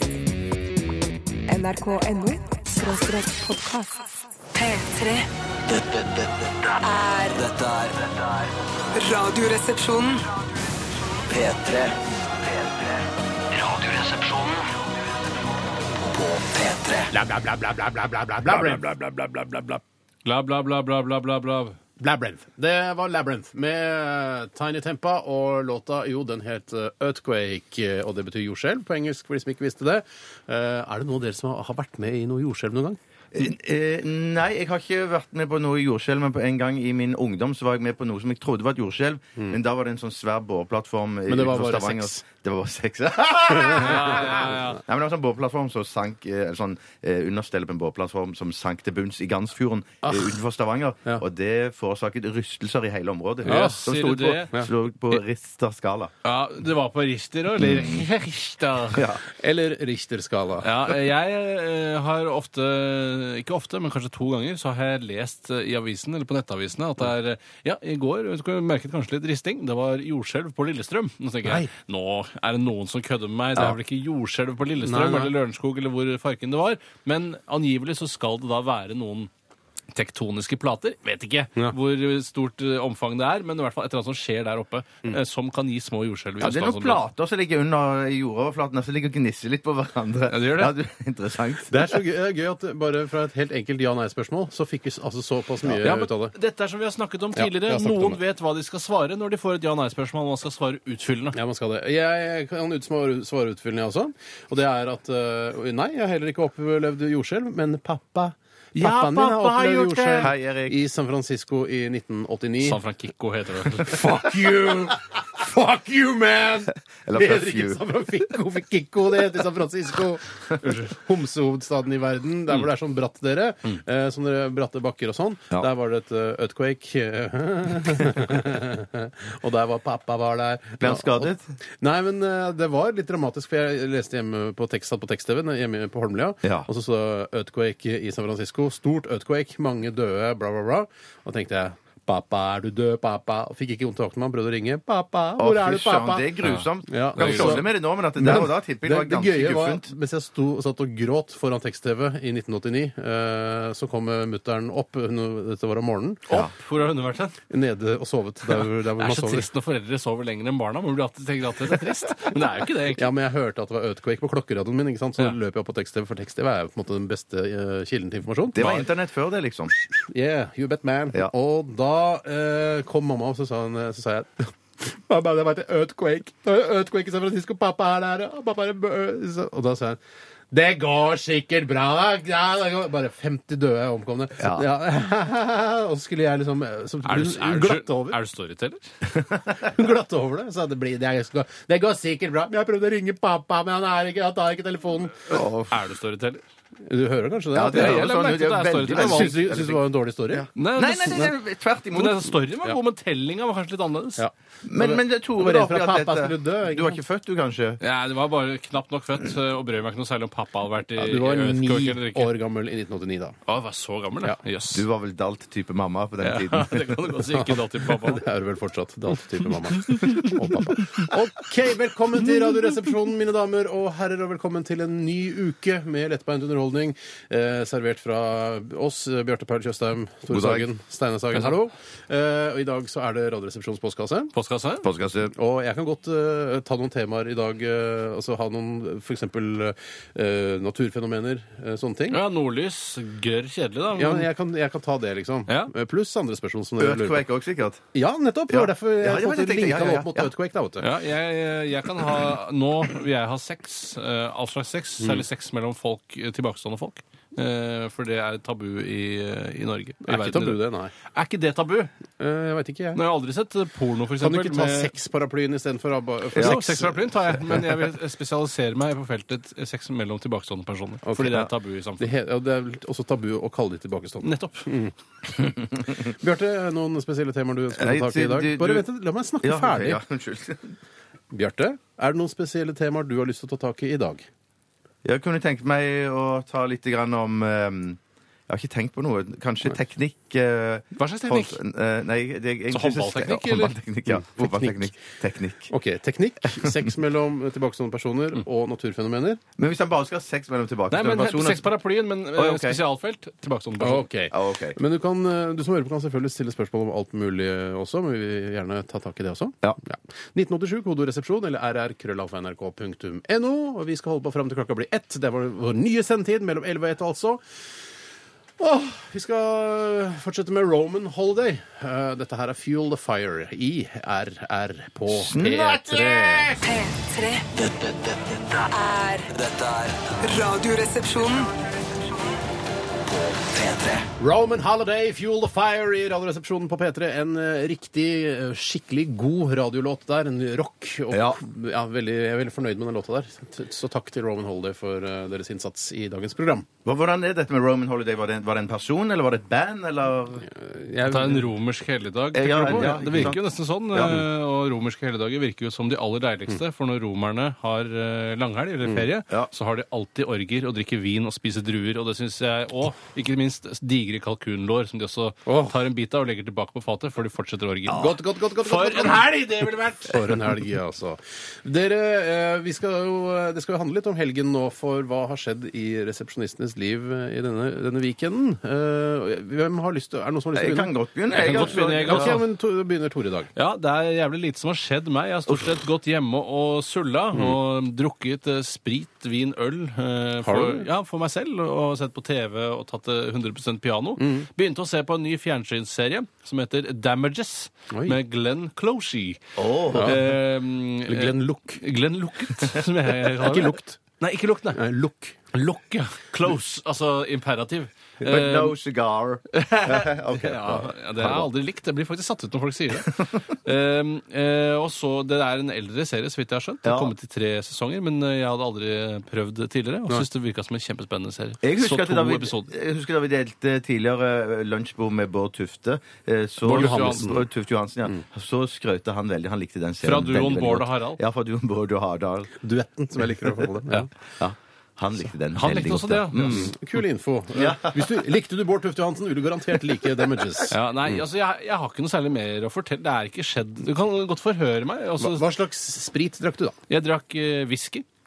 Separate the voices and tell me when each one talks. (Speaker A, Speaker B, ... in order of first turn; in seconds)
Speaker A: 1.5-5.3, 6.8-7.4, 8.9-10.2, 326.6-327.5, 328.7-329.3, 330.2-331.5
Speaker B: 5.7-6.8, 7.3-8.5, 11.3-14.7, 15.9-17.1, 327.5-328.7, 329.3-330.2, 333.1-334.1
Speaker C: 17.1-19.8, 22.0-33.0, 41.3-42.2, 43.5-44.2, 50.0-50.4, 53.5-53.8, 59.3-60.7, 74.8-75.3, 91.7-96.3, 97.4-98.2, 101.3-112.8, 113.8-146.3, 146.9-156.3, 157.5-159.5, 163.0-168.7, 170.1-180.0, 180.5-188.2, 189.6-195.5, 196.8-198.1, 198.9-200.5, 204.2-207.0, 211.0-213.4, 217.3-234.3, 235.3-242.2, 244.0-247.2, 247.9-250.9, 260.0-260.9, 262.2-263.0, 264.2-267.1, 271.1-271.3, 272.0-274.9, 276.0-280.0, 281.3-284.3, 294.4-295.0, 295.7-299.4, 303.8-317.4, 318.6-326.7, 334.2-346.7, 350.5-351.5, 352.7-353.4, 365.5-365.7, 367.9-383.5, 390.4-390.9, 394.2-394.5, 397.9-398.2, 399.9-400.3, 401.1-401.8, 403.4-404.0, 404.7-405.4, 426.6-427.4, 432.6-434.1, 436.4-441.2, 445.2-446.8
Speaker D: 20.2-21.8, 43.8-44.8, 53.5-54.6, 56.2-59.1, 60.6-79.3, 79.9-87.0, 90.3-90.8, 95.8-101.4, 108.8-110.3, 112.6-114.0, 146.4-147.6, 156.3-157.4, 159.0-163.1, 187.1-188.9, 195.7-196.4, 197.7-199.5, 200.6-201.3, 201.9-204.2, 207.8-212.3, 213.5-214.9, 216.2-218.2, 219.9-220.2, 234.3-234.9, 242.1-244.3, 250.8-261.9, 262.9-264.9, 266.4-272.1, 274.2-274.7, 291.0-291.6, 292.7-293.8, 300.9-304.1, 351.1-370.4, 381.3-382.4, 383.6-404.8, 405.5-408.8, 409.5-422.7, 426.6-427.4, 430.0-431.2, 435.6-436.7, 440.7-445.4, 446.9-448.1
Speaker E: 33.3-56.1, 57.6-58.1, 58.9-59.2, 86.4-91.9, 110.1-110.8, 117.1-117.8, 130.8-131.5, 145.4-149.9, 168.6-169.8, 184.4-184.7, 195.3-195.7, 197.5-202.3, 204.7-207.8, 214.7-217.1, 230.3-230.7, 234.8-235.3, 246.8-247.8, 248.5-250.3, 277.7-278.9, 279.4-280.8, 285.1-295.7, 299.6-301.7, 302.3-302.8, 304.3-304.8, 325.1-326.6, 341.1-341.4, 346.9-350.5, 352.3-353.4, 353.9-354.2, 367.9-368.1, 380.5-382.4, 399.6-400.2, 408.2-411.5, 413.1-413.4, 416.8-417.1, 421.6-432.5, 434.4-436.7, 437.5-438.1